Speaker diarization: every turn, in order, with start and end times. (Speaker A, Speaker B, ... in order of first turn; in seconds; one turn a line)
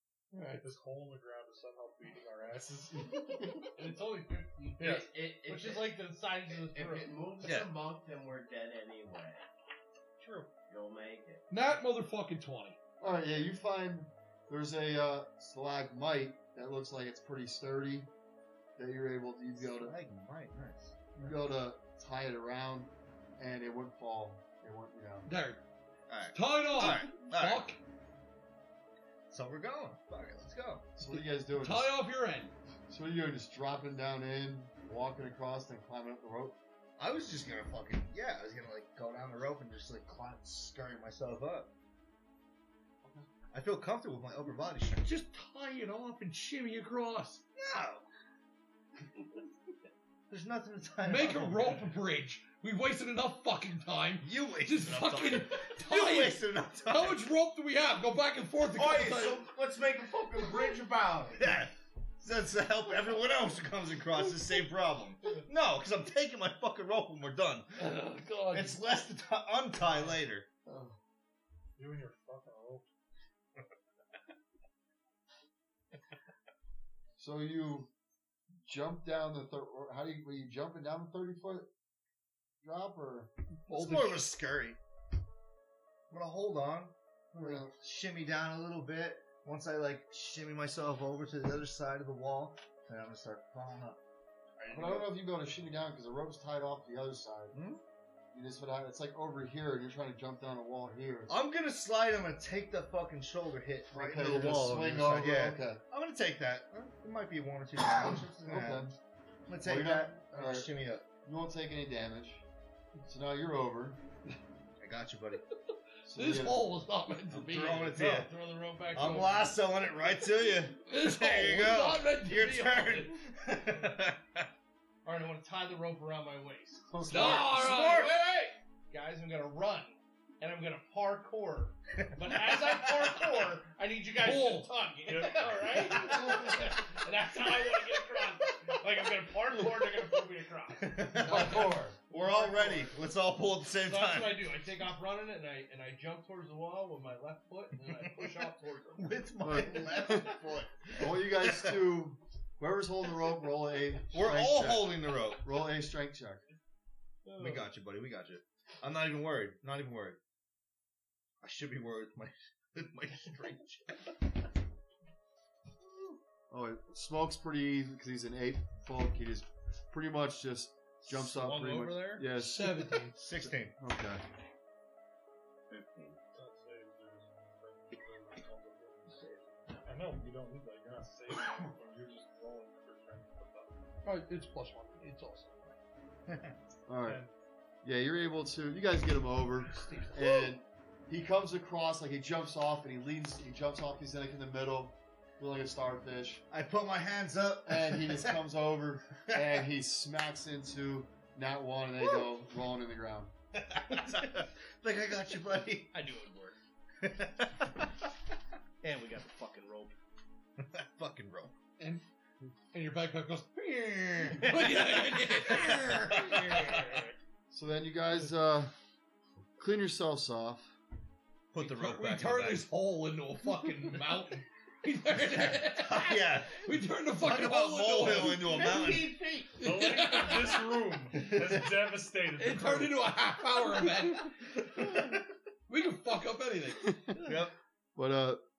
Speaker A: 0.3-0.7
Speaker B: 0.6-3.5
Speaker C: 3.8-7.3
Speaker D: 4.6-9.4
Speaker E: 7.4-7.8
Speaker B: 10.2-10.5
Speaker D: 10.7-11.4
Speaker A: 11.5-12.8
Speaker F: 13.0-18.1
Speaker F: 18.8-20.0
Speaker E: 19.6-21.2
Speaker F: 21.1-25.3
Speaker A: 25.3-25.6
Speaker E: 26.1-27.7
Speaker A: 26.3-27.8
Speaker E: 29.3-30.9
Speaker F: 31.0-32.0
Speaker A: 31.1-32.5
Speaker F: 32.9-36.6
Speaker E: 37.0-41.7
Speaker E: 43.5-45.1
Speaker A: 45.0-47.4
Speaker E: 47.6-48.0
Speaker E: 50.3-51.9
Speaker A: 51.0-59.5
Speaker E: 54.2-57.3
Speaker E: 58.7-67.9
Speaker A: 67.8-68.8
Speaker E: 68.5-70.5
Speaker F: 70.7-71.0
Speaker B: 71.8-72.9
Speaker F: 77.2-77.9
Speaker F: 78.7-81.7
Speaker F: 82.6-84.2
Speaker E: 83.7-84.8
Speaker E: 86.1-94.0
Speaker F: 87.4-87.7
Speaker E: 94.6-95.1
Speaker F: 94.7-97.5
Speaker E: 97.5-97.8
Speaker F: 98.3-101.4
Speaker E: 101.3-109.0
Speaker F: 103.9-105.8
Speaker F: 108.5-109.0
Speaker E: 109.5-111.0
Speaker F: 109.6-110.7
Speaker F: 111.2-112.5
Speaker F: 113.0-114.0
Speaker E: 114.8-115.5
Speaker F: 116.1-116.7
Speaker A: 116.1-118.0
Speaker E: 117.3-118.3
Speaker B: 118.0-118.3
Speaker C: 118.0-119.6
Speaker E: 118.9-124.5
Speaker A: 120.8-123.2
Speaker C: 125.0-141.3
Speaker F: 126.9-127.5
Speaker A: 127.1-128.1
Speaker E: 127.2-128.2
Speaker E: 132.0-133.6
Speaker A: 134.2-134.7
Speaker B: 135.1-136.3
Speaker E: 140.8-144.6
Speaker F: 141.1-142.0
Speaker C: 142.2-142.9
Speaker C: 143.8-149.2
Speaker E: 147.9-151.8
Speaker F: 149.4-150.4
Speaker F: 151.0-156.4
Speaker E: 154.1-155.4
Speaker C: 157.2-157.7
Speaker E: 157.4-160.2
Speaker E: 161.4-164.2
Speaker F: 166.5-174.2
Speaker C: 171.1-172.3
Speaker A: 172.3-173.2
Speaker E: 173.2-173.7
Speaker D: 175.7-176.2
Speaker B: 176.3-183.8
Speaker A: 184.0-185.8
Speaker E: 186.3-186.6
Speaker F: 186.9-187.2
Speaker B: 187.1-187.3
Speaker F: 187.8-196.4
Speaker A: 189.7-190.5
Speaker E: 196.5-198.4
Speaker F: 197.7-203.3
Speaker E: 203.6-206.0
Speaker C: 205.9-206.6
Speaker E: 207.0-207.9
Speaker C: 208.8-209.9
Speaker E: 210.6-211.5
Speaker A: 211.8-212.1
Speaker A: 212.7-216.2
Speaker C: 214.5-217.1
Speaker E: 215.5-216.9
Speaker F: 217.5-218.7
Speaker F: 219.6-220.7
Speaker E: 221.5-222.7
Speaker A: 221.6-229.0
Speaker E: 225.7-229.2
Speaker C: 228.4-229.7
Speaker A: 229.6-231.0
Speaker B: 229.6-233.1
Speaker E: 231.1-231.7
Speaker A: 232.4-234.4
Speaker E: 234.8-235.1
Speaker A: 235.7-237.0
Speaker F: 236.9-237.4
Speaker E: 237.2-237.6
Speaker F: 237.9-238.4